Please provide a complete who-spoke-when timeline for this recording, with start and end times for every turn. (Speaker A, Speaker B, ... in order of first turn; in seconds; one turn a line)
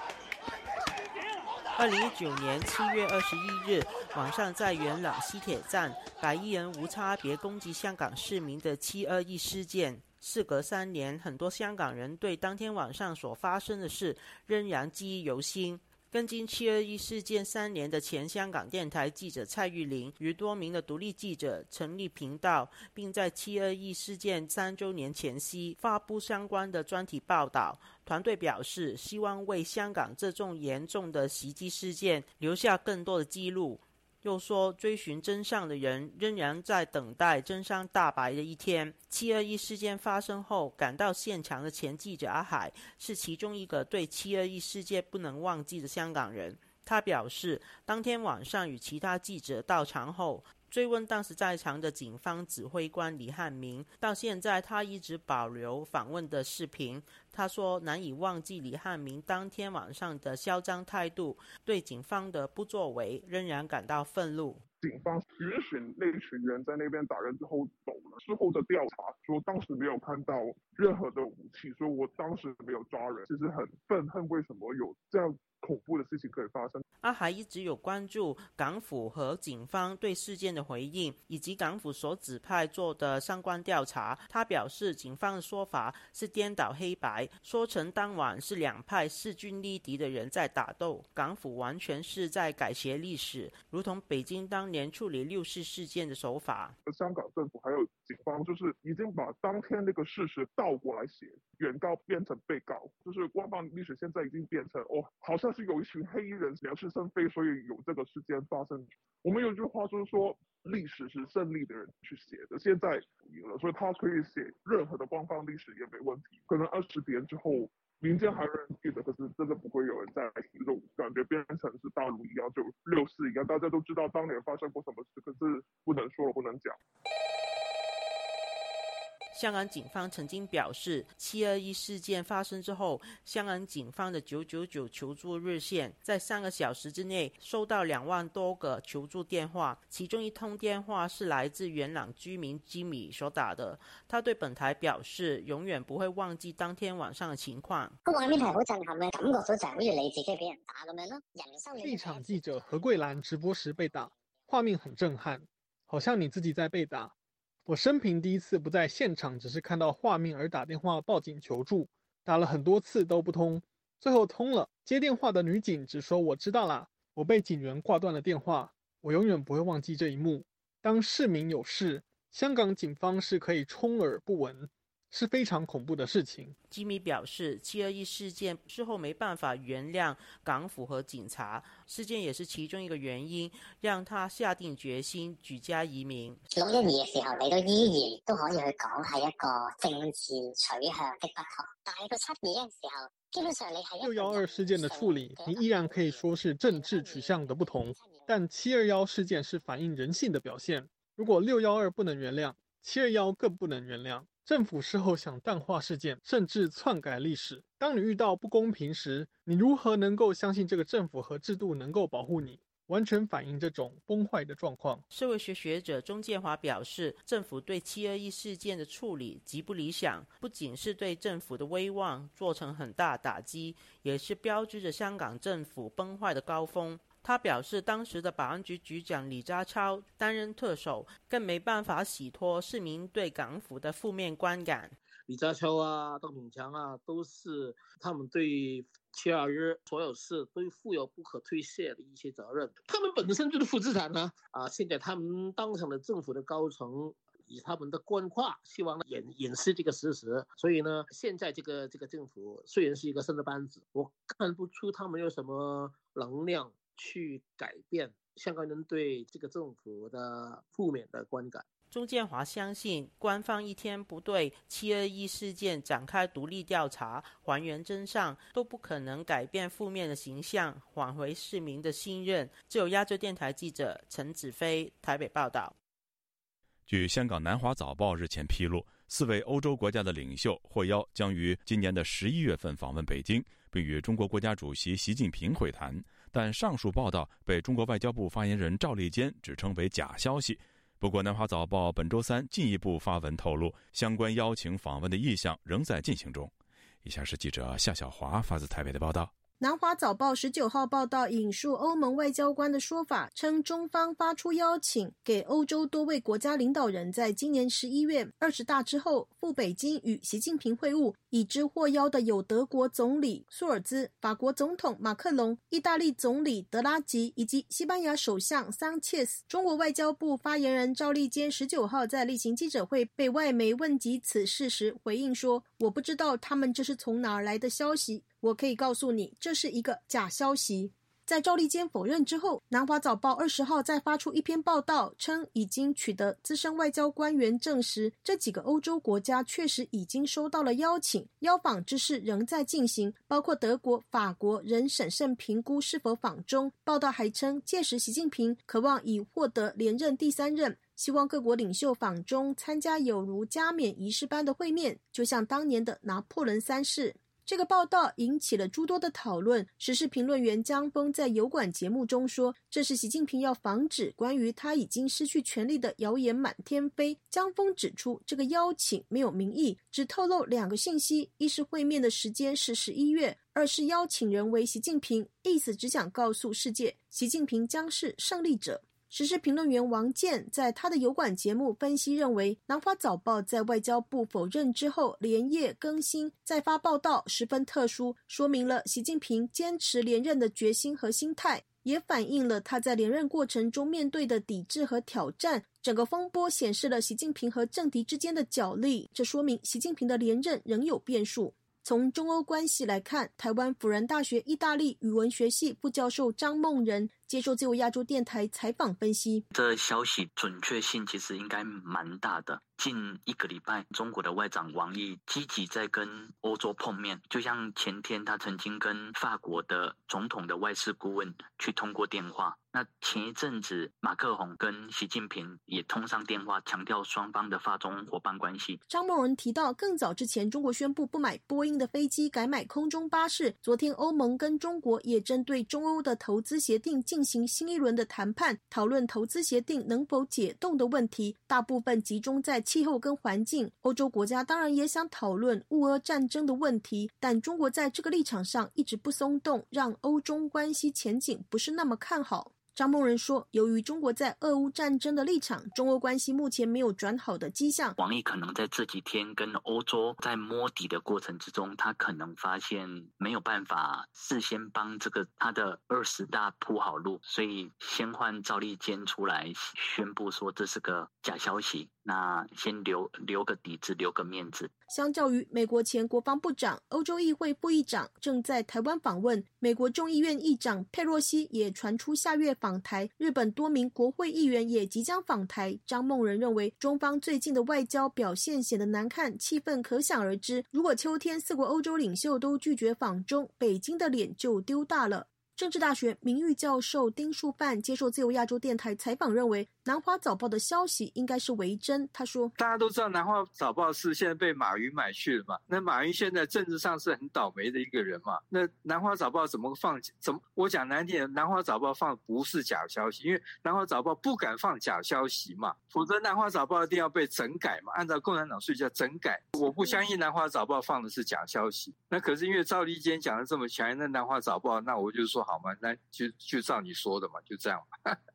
Speaker A: 1.7-64.6
Speaker B: 64.8-76.8
Speaker A: 77.0-96.8
Speaker B: 96.9-126.8
Speaker A: 129.3-148.0
Speaker C: 148.1-152.8
Speaker D: 151.8-157.1
Speaker D: 157.7-176.5
Speaker A: 176.7-186.4
Speaker C: 186.5-198.3
Speaker D: 194.0-215.0
Speaker A: 215.1-234.9
Speaker E: 235.3-261.6
Speaker A: 261.9-275.7
Speaker F: 276.9-296.5
Speaker F: 297.0-299.3
Speaker G: 299.6-409.4
Speaker H: 409.5-428.8
Speaker G: 428.9-458.0
Speaker H: 458.0-474.7
Speaker G: 474.9-502.5
Speaker I: 502.6-528.2